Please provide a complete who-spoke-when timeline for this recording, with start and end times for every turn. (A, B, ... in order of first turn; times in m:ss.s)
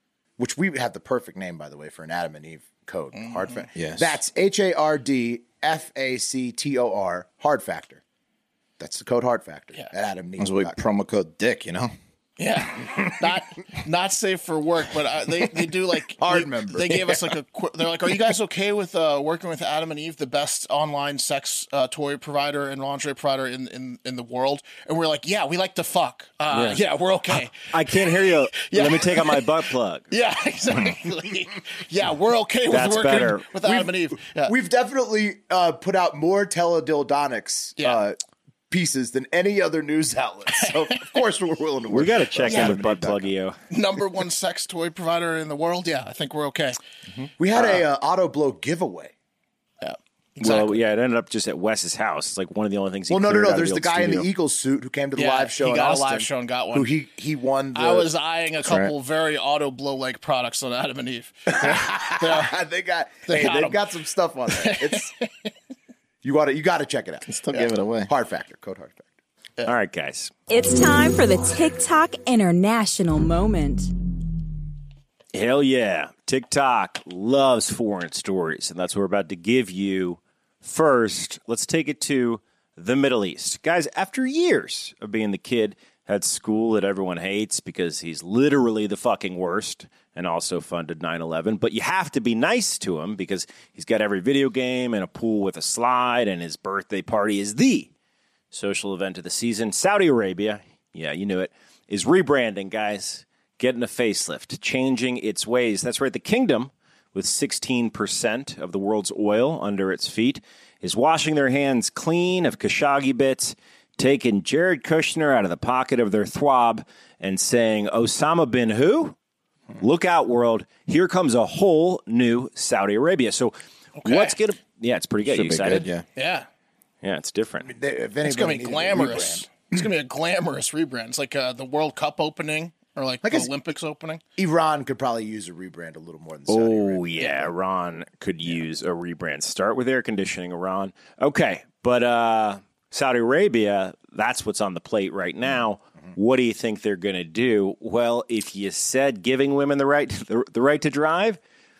0:00.4-0:08.0 A
0:03.1-0:03.6 B
0:03.7-0:04.2 C
0:08.8-0:10.8 A
0:10.4-0:11.9 C
0:12.4-0:34.5 B
0:16.2-0:17.2 A
0:26.5-0:30.1 D
0:32.7-0:33.5 D
0:33.6-0:38.2 A
0:38.7-0:43.3 A
0:40.6-0:41.0 B
0:41.9-0:43.6 D
0:42.4-0:42.8 B
0:43.7-0:46.8 B
0:47.4-0:49.1 A
0:47.6-0:47.8 B
0:49.8-0:50.8 B
0:50.4-0:54.3 D
0:53.1-0:58.1 A
0:55.2-0:56.9 B
0:57.7-1:02.5 B
0:58.6-0:58.9 C
1:01.5-1:05.1 A
1:03.3-1:03.8 B
1:04.5-1:05.5 B
1:06.2-1:07.3 A
1:07.2-1:08.1 C
1:08.1-1:09.1 A
1:09.6-1:10.3 D
1:10.5-1:13.9 E
1:15.3-1:37.9 D
1:38.5-1:59.2 D
1:59.8-2:05.9 D
2:04.0-2:04.4 B
2:05.2-2:06.0 C
2:06.1-2:06.5 B
2:07.0-2:07.7 D
2:07.6-2:09.5 A
2:08.2-2:14.2 B
2:13.2-2:13.5 A
2:14.4-2:17.3 A
2:16.5-2:31.4 D
2:17.2-2:17.5 B